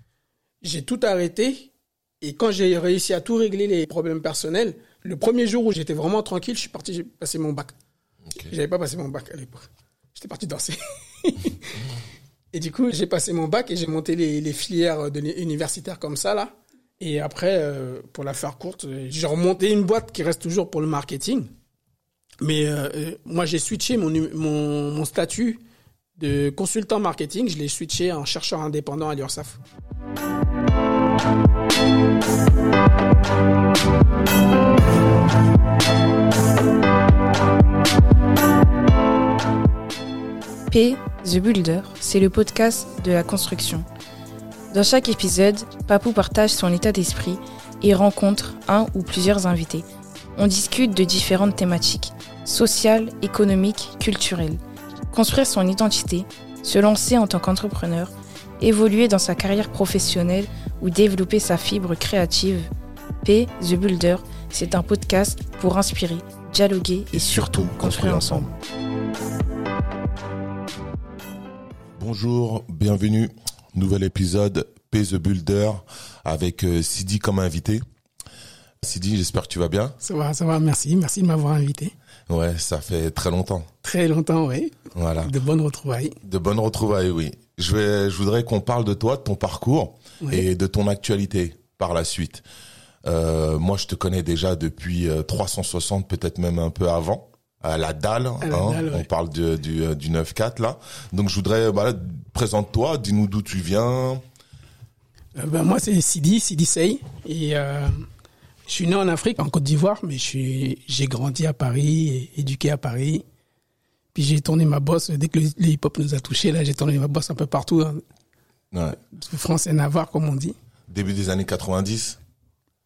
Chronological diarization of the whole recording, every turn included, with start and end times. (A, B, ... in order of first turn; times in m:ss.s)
0:00.6-0:07.7 A
0:08.5-0:11.8 A
0:12.5-0:21.5 A
0:22.4-0:25.6 A
0:26.2-0:29.6 A
0:40.7-0:43.8 B
0:44.7-0:49.8 B
0:50.4-0:54.6 B
0:55.1-1:02.7 B
1:03.2-1:08.5 B
1:07.1-1:08.3 C
1:12.0-1:17.8 C
1:18.8-1:20.0 C
1:20.0-1:21.9 A
1:22.3-1:23.7 C
1:23.8-1:26.2 A
1:24.9-1:25.3 C
1:26.2-1:32.4 C
1:33.0-1:44.2 C
1:38.4-1:39.1 A
1:45.4-1:48.0 A
1:48.7-1:53.2 A
1:54.1-1:58.0 A
1:58.7-1:59.0 C
1:59.1-2:00.5 A
2:00.9-2:02.2 C